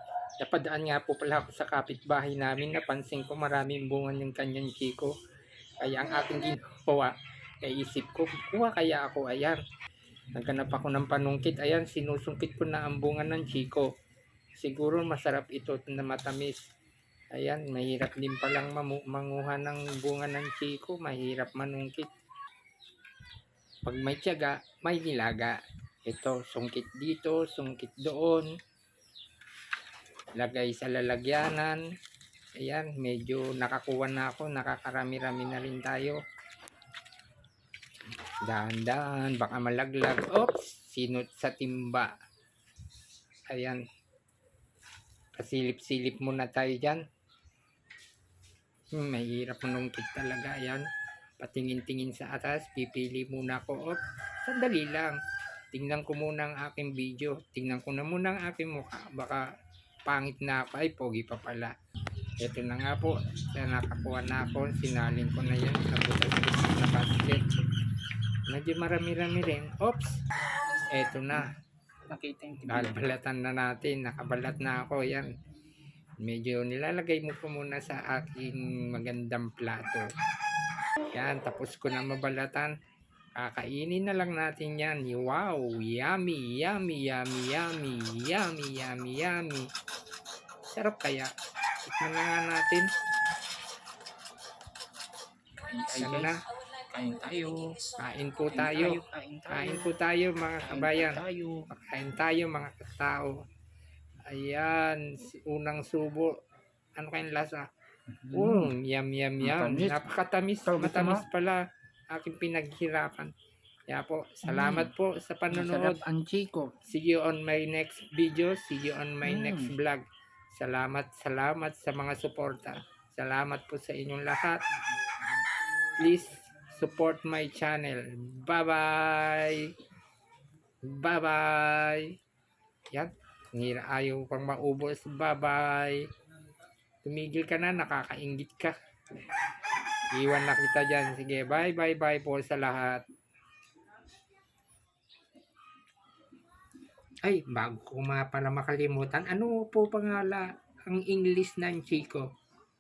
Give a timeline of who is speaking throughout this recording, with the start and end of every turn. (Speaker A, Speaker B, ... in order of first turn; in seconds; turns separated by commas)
Speaker A: 0.4-5.1, Speaker A: 5.8-9.6, Speaker A: 10.4-13.9, Speaker A: 14.6-16.6, Speaker A: 17.3-22.1, Speaker A: 23.9-25.6, Speaker A: 26.1-28.5, Speaker A: 30.4-31.8, Speaker A: 32.6-36.2, Speaker A: 38.5-42.1, Speaker A: 43.5-43.8, Speaker A: 45.4-47.0, Speaker A: 49.0-50.8, Speaker A: 51.4-55.2, Speaker A: 55.7-59.5, Speaker A: 60.1-61.7, Speaker A: 62.4-67.5, Speaker A: 68.5-70.1, Speaker A: 70.9-71.5, Speaker B: 72.1-73.0, Speaker A: 72.7-75.3, Speaker A: 76.2-80.1, Speaker A: 81.1-82.7, Speaker A: 83.4-89.7, Speaker A: 90.7-91.3, Speaker A: 91.8-92.9, Speaker B: 95.6-97.8, Speaker A: 95.9-96.4, Speaker A: 98.0-103.3, Speaker B: 98.5-99.9, Speaker B: 100.7-101.7, Speaker A: 104.3-106.4, Speaker A: 107.0-107.7, Speaker B: 108.2-108.7, Speaker A: 108.3-113.3, Speaker B: 109.4-110.0, Speaker B: 110.7-111.3, Speaker A: 113.9-116.0, Speaker B: 114.5-114.9, Speaker B: 115.5-116.7, Speaker A: 116.8-120.0, Speaker B: 119.2-119.8, Speaker A: 120.5-124.6, Speaker A: 126.0-129.7, Speaker A: 130.8-132.1, Speaker A: 132.9-136.0, Speaker A: 137.0-138.7, Speaker A: 140.1-143.0, Speaker A: 147.2-152.3